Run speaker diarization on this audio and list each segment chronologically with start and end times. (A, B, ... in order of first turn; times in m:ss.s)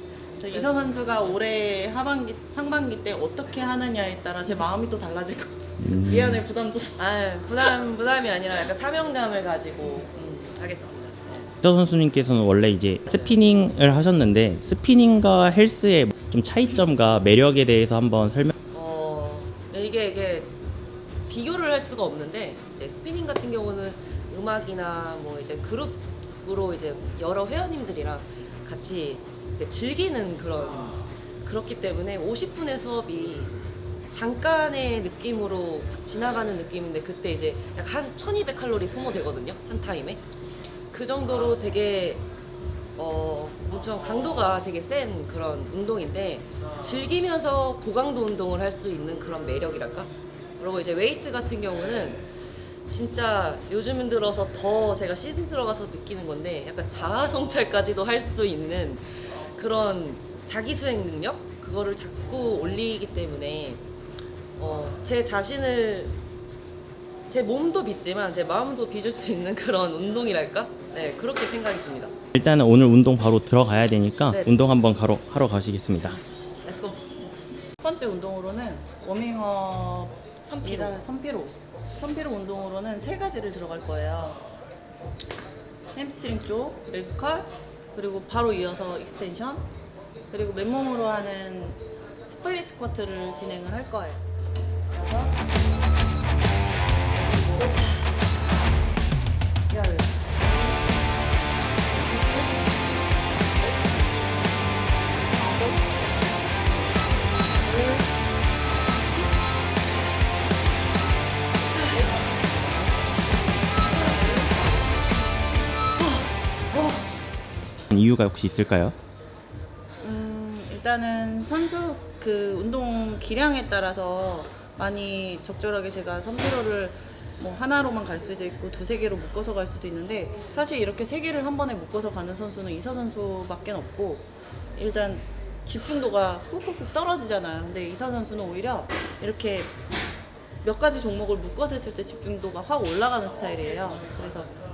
0:00.4-0:07.0 A
0:00.5-0:01.3 B
0:05.8-0:06.4 C
0:07.0-0:11.5 B
0:11.6-0:18.5 C
0:13.1-0:13.4 B
0:18.7-0:20.5 B
0:21.3-0:33.5 B
0:34.1-0:40.2 B
0:40.9-0:42.2 B
0:43.0-0:52.3 B
0:52.8-1:03.8 B
1:04.6-1:06.2 B
1:07.3-1:12.1 B
1:12.4-1:16.2 C
1:14.3-1:14.6 B
1:16.6-1:17.2 B
1:17.8-1:24.4 A
1:20.4-1:21.0 B
1:26.0-1:29.7 A
1:30.3-1:34.2 A
1:35.0-1:35.3 B
1:39.7-1:40.0 B
1:42.1-1:42.6 B
1:47.7-1:48.0 B
1:51.8-1:52.1 B
1:53.8-1:54.5 B
1:56.0-1:57.1 B
1:57.9-1:59.0 C
2:00.0-2:19.7 A
2:20.6-2:24.5 A